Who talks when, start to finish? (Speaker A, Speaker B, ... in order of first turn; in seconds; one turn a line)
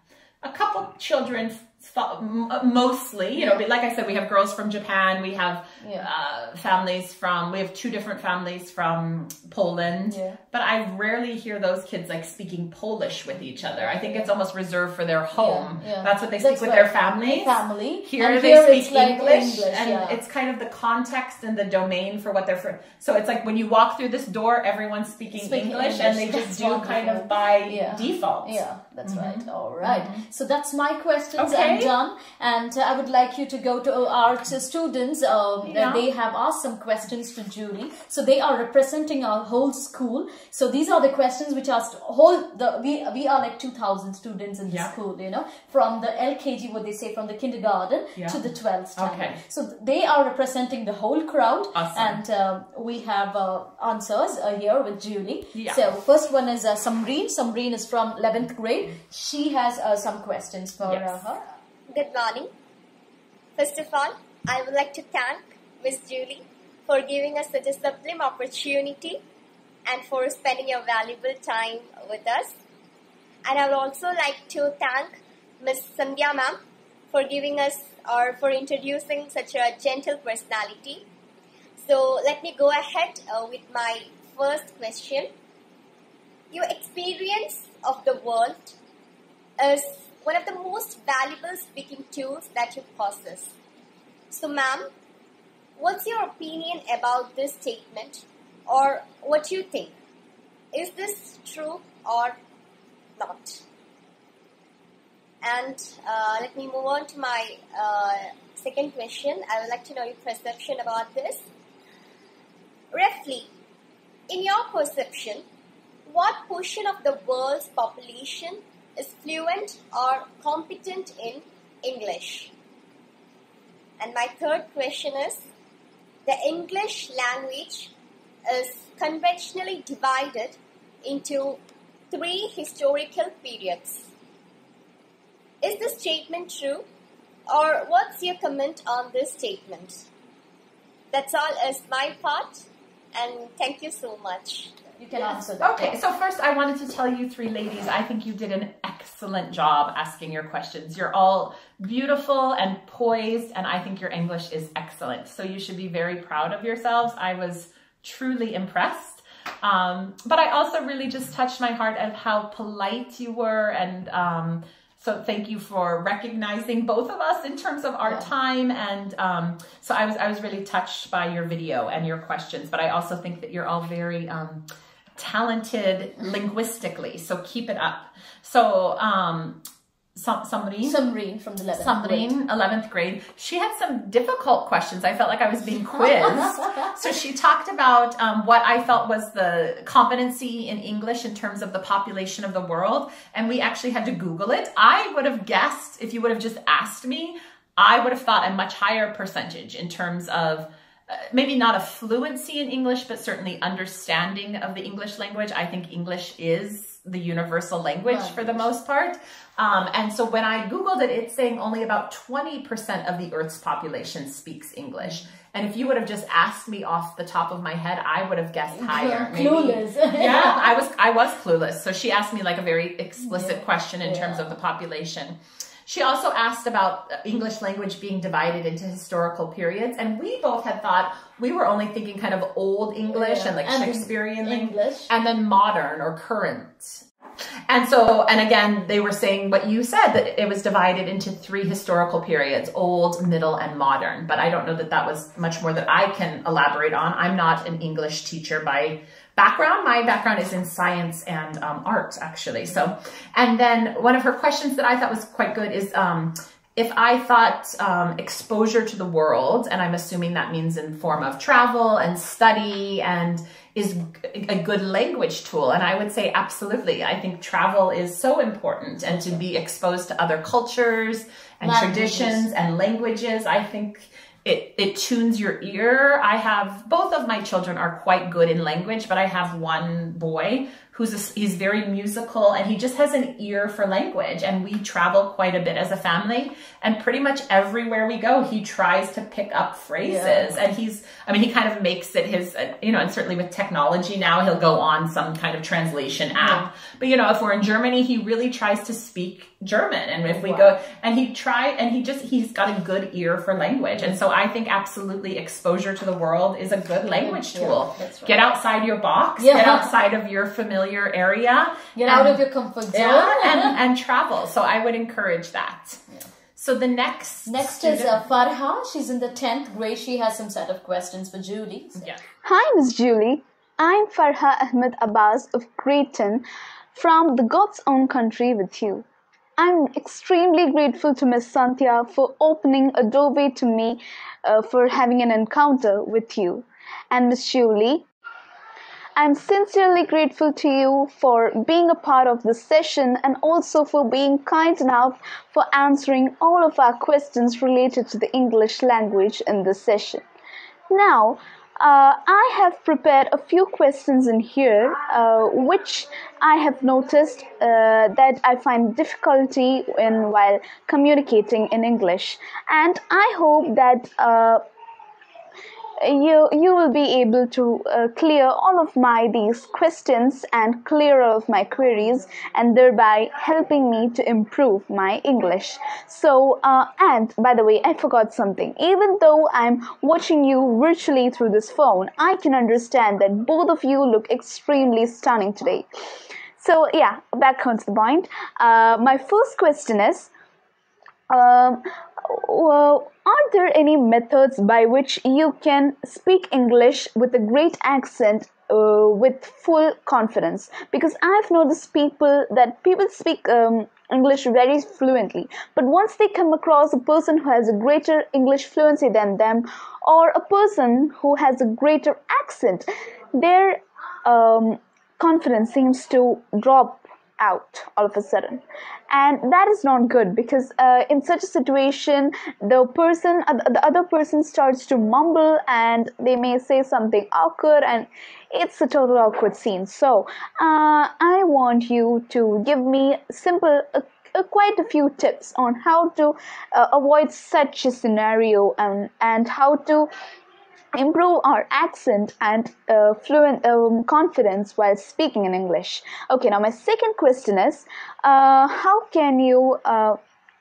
Speaker A: 0.4-30.2
Speaker B: 3.4-3.6
Speaker B: 5.8-6.1
Speaker B: 10.1-10.4
Speaker B: 13.6-14.3
Speaker B: 15.3-20.2
Speaker B: 25.3-61.4
Speaker A: 31.4-31.9
Speaker A: 35.6-36.0
Speaker A: 49.0-49.4
Speaker A: 51.7-52.2
Speaker A: 55.5-55.8
Speaker A: 60.8-61.2
Speaker C: 61.9-62.5
Speaker C: 63.6-69.2
Speaker C: 69.9-72.5
Speaker C: 73.5-76.6
Speaker C: 77.1-81.0
Speaker C: 81.8-85.3
Speaker C: 86.5-88.8
Speaker C: 89.6-93.5
Speaker C: 94.3-94.9
Speaker C: 95.8-99.9
Speaker C: 100.7-102.4
Speaker C: 103.2-103.6
Speaker C: 105.4-111.5
Speaker C: 112.9-113.5
Speaker C: 114.3-115.4
Speaker C: 116.1-122.5
Speaker C: 124.0-125.5
Speaker C: 126.3-127.9
Speaker C: 128.5-131.6
Speaker C: 132.1-134.1
Speaker C: 135.6-136.8
Speaker C: 137.5-140.1
Speaker C: 141.1-144.7
Speaker B: 145.0-145.9
Speaker A: 145.2-174.6
Speaker B: 168.0-168.3
Speaker A: 175.2-179.6
Speaker A: 180.2-181.0
Speaker B: 180.8-182.3
Speaker A: 181.8-237.0
Speaker B: 185.9-186.9
Speaker B: 208.1-208.7
Speaker B: 218.7-220.7
Speaker B: 223.3-224.5
Speaker B: 233.1-235.1
Speaker A: 237.7-316.0
Speaker B: 271.6-272.5
Speaker B: 290.0-290.5
Speaker B: 296.3-296.7
Speaker B: 300.2-300.8
Speaker B: 307.2-308.4
Speaker B: 309.4-309.9
Speaker B: 311.9-313.8
Speaker A: 316.6-318.2
Speaker B: 317.5-322.1
Speaker A: 322.0-322.2
Speaker D: 322.4-326.4
Speaker D: 326.9-329.1
Speaker D: 329.6-338.0
Speaker D: 339.2-350.2
Speaker D: 350.9-364.6
Speaker D: 366.0-385.9
Speaker D: 386.6-390.3
Speaker D: 391.3-440.1
Speaker D: 440.9-450.2